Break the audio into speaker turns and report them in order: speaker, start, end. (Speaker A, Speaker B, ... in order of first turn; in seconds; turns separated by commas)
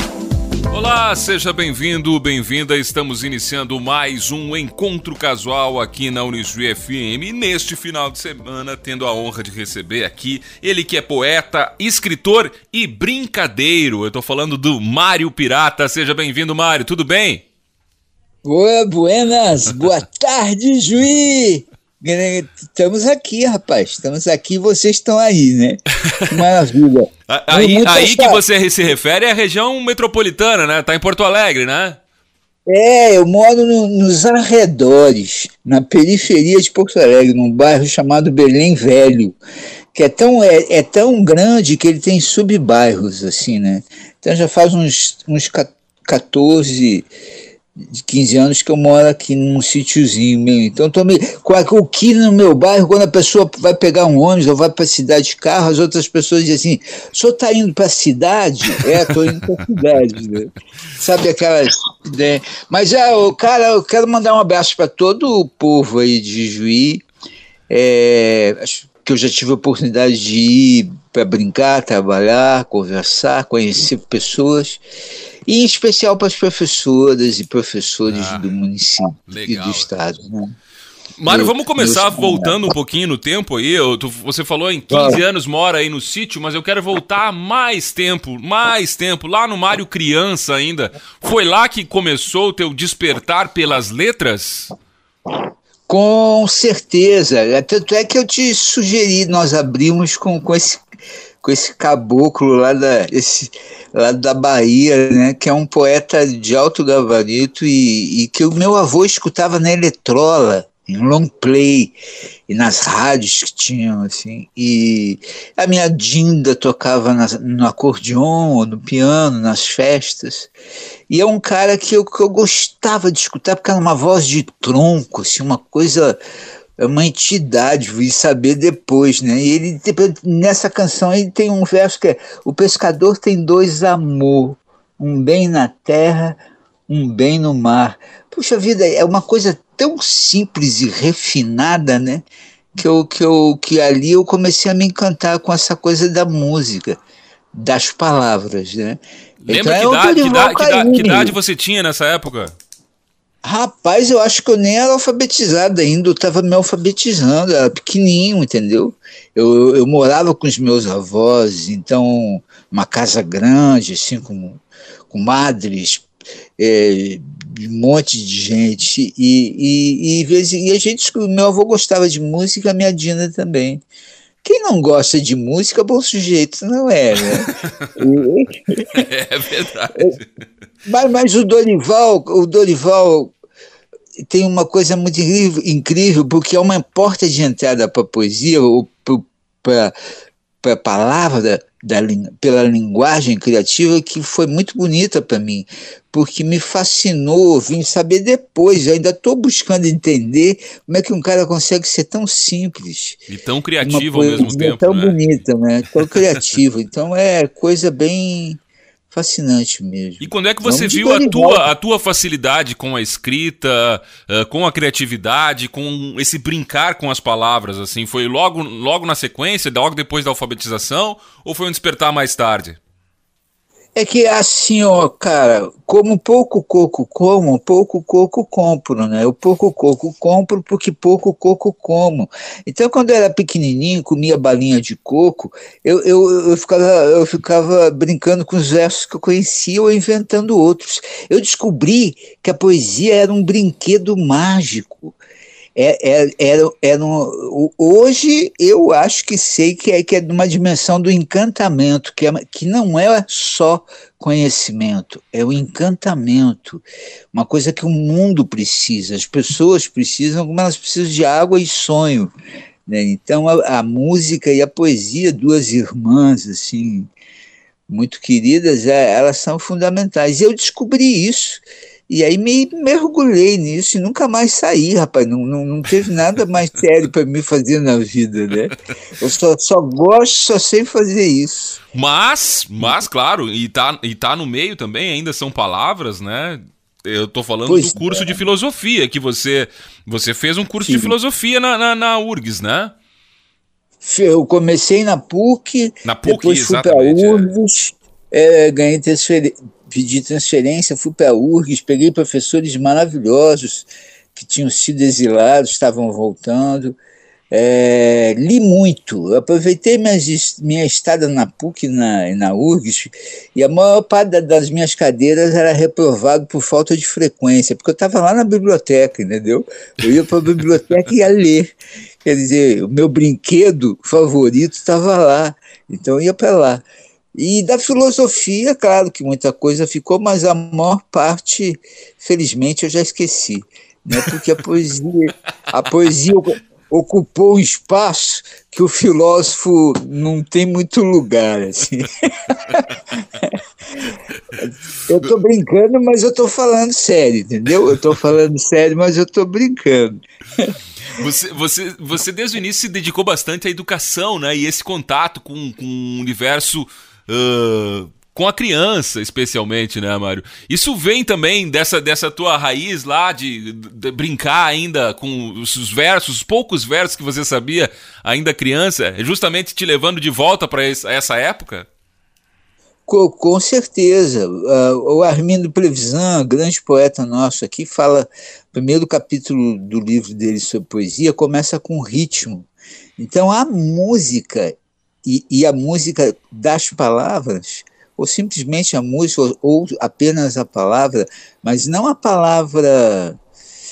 Speaker A: 0.7-17.4, Speaker B: 18.4-28.4, Speaker A: 27.3-32.0, Speaker B: 32.7-39.4, Speaker B: 39.9-47.1, Speaker B: 47.9-67.0, Speaker B: 67.7-74.8, Speaker B: 75.5-80.5, Speaker A: 78.1-78.5, Speaker A: 79.3-79.9, Speaker A: 81.2-94.7, Speaker B: 81.3-82.6, Speaker B: 84.9-85.2, Speaker B: 95.9-100.8, Speaker B: 101.4-112.0, Speaker B: 112.5-120.5, Speaker B: 121.1-126.2, Speaker B: 126.8-147.0, Speaker B: 147.5-151.4, Speaker A: 149.4-152.5, Speaker B: 153.4-173.8, Speaker B: 174.4-179.1, Speaker A: 177.5-177.9, Speaker A: 178.9-180.3, Speaker B: 180.8-183.3, Speaker B: 184.2-190.0, Speaker B: 190.6-203.2, Speaker A: 203.3-205.2, Speaker B: 203.8-211.7, Speaker A: 210.2-222.8, Speaker B: 223.9-245.2, Speaker B: 245.8-262.3, Speaker B: 262.9-267.1, Speaker B: 267.9-281.8, Speaker A: 281.9-292.9, Speaker B: 287.7-288.4, Speaker B: 290.8-291.1, Speaker B: 294.0-307.0, Speaker A: 296.1-297.5, Speaker B: 307.5-342.8, Speaker B: 344.6-350.7, Speaker A: 351.1-371.9, Speaker B: 373.1-382.7, Speaker B: 383.2-393.4